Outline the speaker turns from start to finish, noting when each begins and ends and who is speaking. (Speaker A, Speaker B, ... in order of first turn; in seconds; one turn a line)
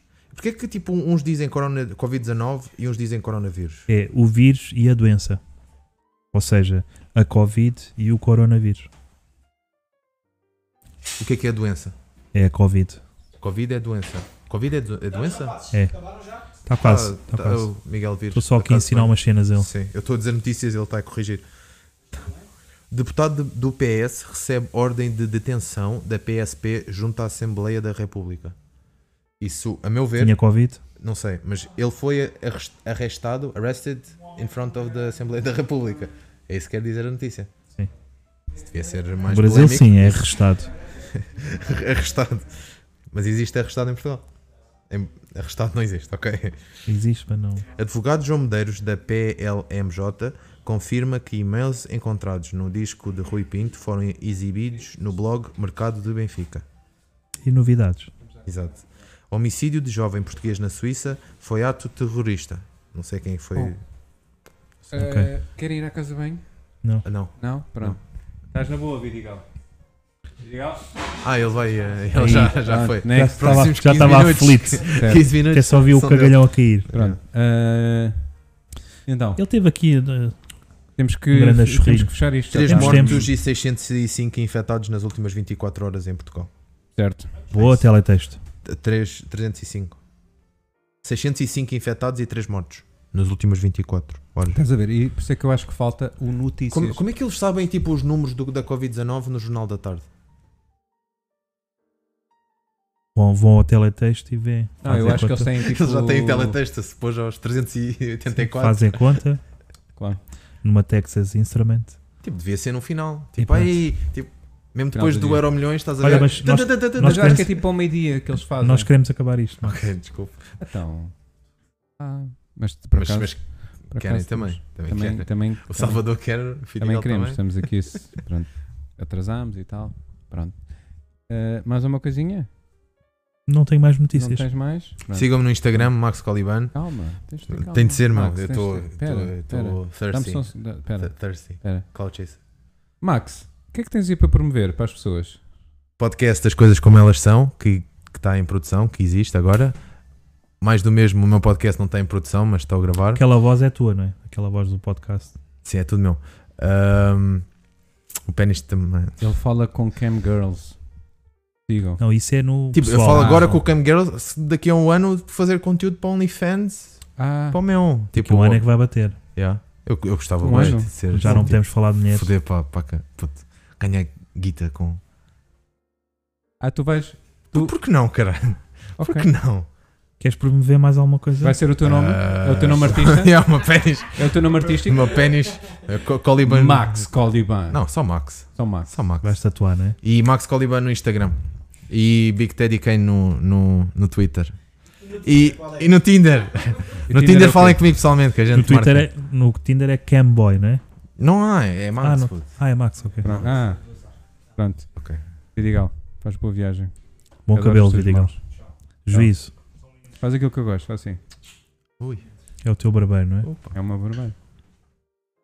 Speaker A: 0.3-3.9
Speaker B: 3.9-5.4
Speaker B: 6.3-8.9
Speaker A: 11.2-11.9
Speaker B: 12.3-13.0
Speaker A: 13.4-15.7
Speaker B: 15.7-15.9
Speaker B: 16.6-17.7
Speaker A: 16.8-21.4
Speaker B: 18.3-19.7
Speaker A: 22.9-28.5
Speaker A: 29.4-30.4
Speaker B: 30.2-30.8
Speaker A: 30.9-37.5
Speaker A: 38.6-40.3
Speaker B: 39.3-40.7
Speaker A: 41.1-42.6
Speaker A: 43.1-44.2
Speaker A: 44.9-46.6
Speaker B: 46.9-47.6
Speaker A: 47.7-56.6
Speaker B: 57.4-58.1
Speaker A: 58.5-63.8
Speaker C: 64.9-66.4
Speaker B: 64.9-65.3
Speaker A: 67.0-68.0
Speaker C: 67.4-68.0
Speaker C: 68.5-69.4
Speaker C: 70.4-70.8
Speaker A: 71.2-77.2
Speaker C: 72.2-73.7
Speaker B: 72.2-72.5
Speaker B: 73.1-76.9
Speaker C: 74.9-75.3
Speaker C: 76.9-78.2
Speaker C: 79.0-79.4
Speaker B: 79.4-80.3
Speaker C: 81.0-83.3
Speaker B: 81.3-83.3
Speaker A: 82.5-86.5
Speaker C: 87.0-87.3
Speaker A: 87.5-87.8
Speaker B: 87.5-88.4
Speaker A: 88.6-90.0
Speaker A: 91.0-94.6
Speaker C: 94.5-97.0
Speaker A: 96.7-100.0
Speaker B: 103.1-105.5
Speaker C: 104.8-106.6
Speaker A: 105.5-109.2
Speaker B: 108.4-109.4
Speaker B: 110.6-112.0
Speaker A: 112.2-117.4
Speaker B: 113.4-113.7
Speaker C: 114.9-115.5
Speaker B: 116.0-117.5
Speaker C: 117.0-118.9
Speaker B: 118.6-119.8
Speaker A: 119.6-120.4
Speaker C: 120.6-121.1
Speaker C: 122.0-126.1
Speaker A: 122.9-127.4
Speaker C: 126.8-130.6
Speaker C: 131.3-132.5
Speaker B: 133.5-134.4
Speaker C: 134.1-135.3
Speaker A: 135.1-136.7
Speaker C: 136.7-141.8
Speaker A: 137.5-140.5
Speaker A: 141.0-142.4
Speaker C: 143.0-145.4
Speaker A: 146.0-149.8
Speaker A: 150.6-153.2
Speaker B: 153.2-155.3
Speaker A: 155.6-157.5
Speaker A: 158.3-159.2
Speaker C: 159.2-160.8
Speaker C: 161.7-162.0
Speaker B: 162.0-163.5
Speaker A: 162.7-168.6
Speaker C: 163.1-163.6
Speaker C: 167.2-167.6
Speaker B: 168.1-169.2
Speaker A: 169.3-175.0
Speaker C: 170.4-171.5
Speaker B: 171.1-172.3
Speaker C: 176.6-177.7
Speaker A: 177.5-179.7
Speaker C: 179.0-179.3
Speaker B: 180.2-181.6
Speaker C: 181.4-183.4
Speaker A: 181.8-187.1
Speaker C: 184.2-185.1
Speaker C: 186.4-187.8
Speaker A: 187.7-189.3
Speaker C: 188.5-188.9
Speaker B: 189.2-190.0
Speaker A: 190.0-191.4
Speaker A: 191.9-194.5
Speaker A: 195.1-199.1
Speaker C: 197.1-197.8
Speaker B: 198.5-200.8
Speaker A: 201.2-202.5
Speaker B: 202.0-203.4
Speaker C: 203.2-203.9
Speaker C: 204.6-204.9
Speaker A: 204.9-205.2
Speaker C: 205.5-206.9
Speaker B: 207.5-208.3
Speaker C: 207.5-208.4
Speaker B: 209.1-209.5
Speaker C: 210.2-211.2
Speaker B: 212.6-213.5
Speaker A: 213.4-213.7
Speaker C: 213.7-214.3